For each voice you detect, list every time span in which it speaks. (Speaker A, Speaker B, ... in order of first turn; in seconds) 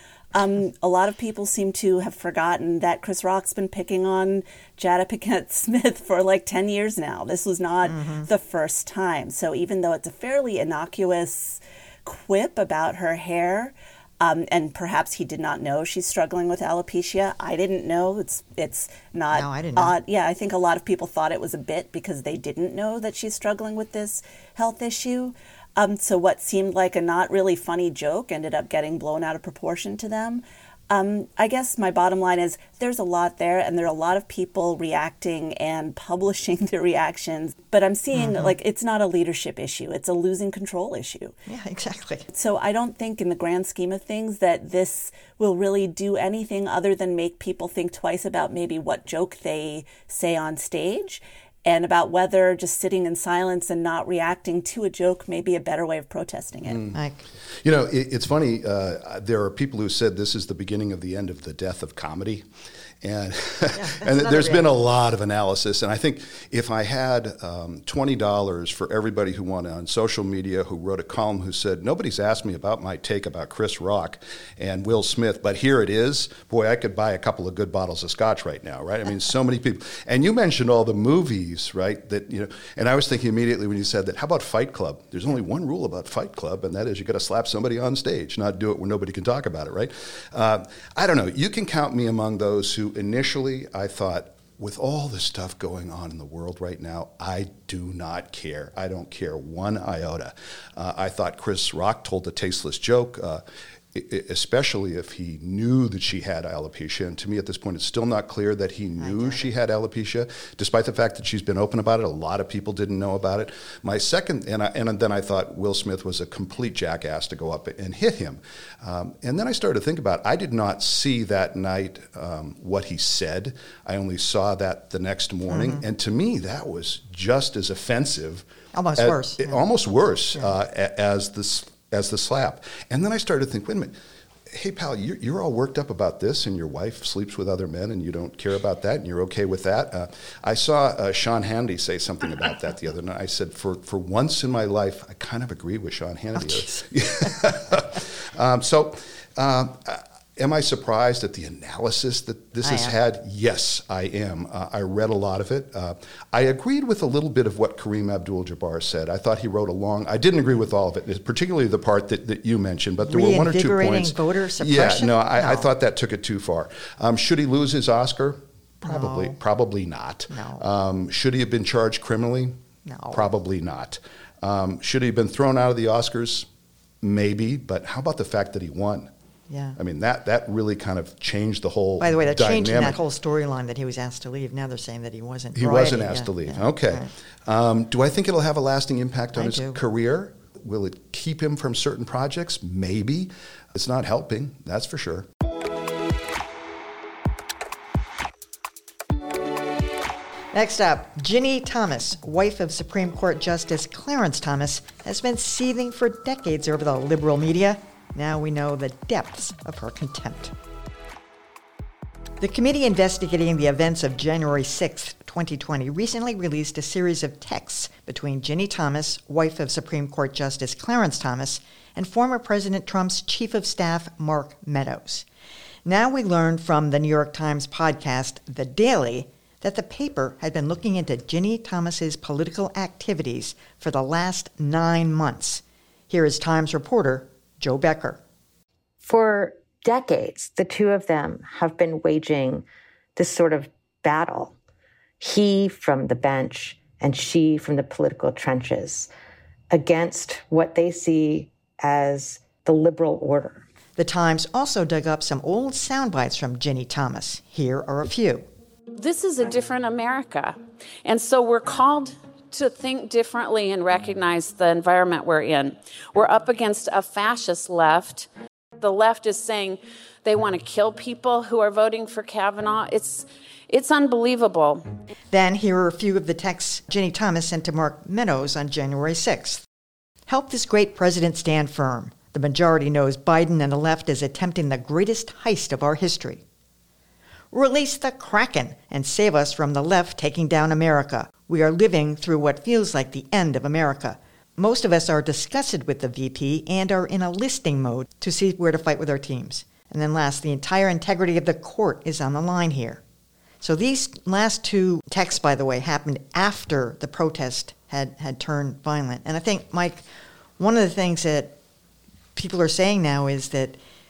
Speaker A: 0.3-41.4, 42.3-56.8
Speaker B: 7.8-8.3, 19.3-20.0, 38.1-38.5, 41.5-42.3, 56.9-57.2, 63.7-64.7, 109.0-109.5, 125.5-125.8, 128.7-129.6, 146.3-147.3, 152.6-152.9, 163.0-165.7, 168.8-169.4, 170.3-170.7, 172.8-173.3, 179.5-179.8, 182.0-187.1, 189.3-189.8, 200.5-210.6, 212.4-225.3, 225.8-238.2, 254.0-258.5, 275.3-279.6, 280.3-286.4, 287.5-303.0, 303.6-310.1, 310.6-311.6, 312.4-313.8
Speaker C: 56.7-57.0, 57.6-62.5, 63.0-128.5, 129.0-133.9, 134.5-172.6, 173.1-176.5, 177.0-179.1, 179.8-183.0, 185.6-195.3
Speaker D: 239.0-242.7, 243.2-244.6, 245.2-249.1, 249.7-253.7
Speaker E: 258.9-268.3, 268.8-274.8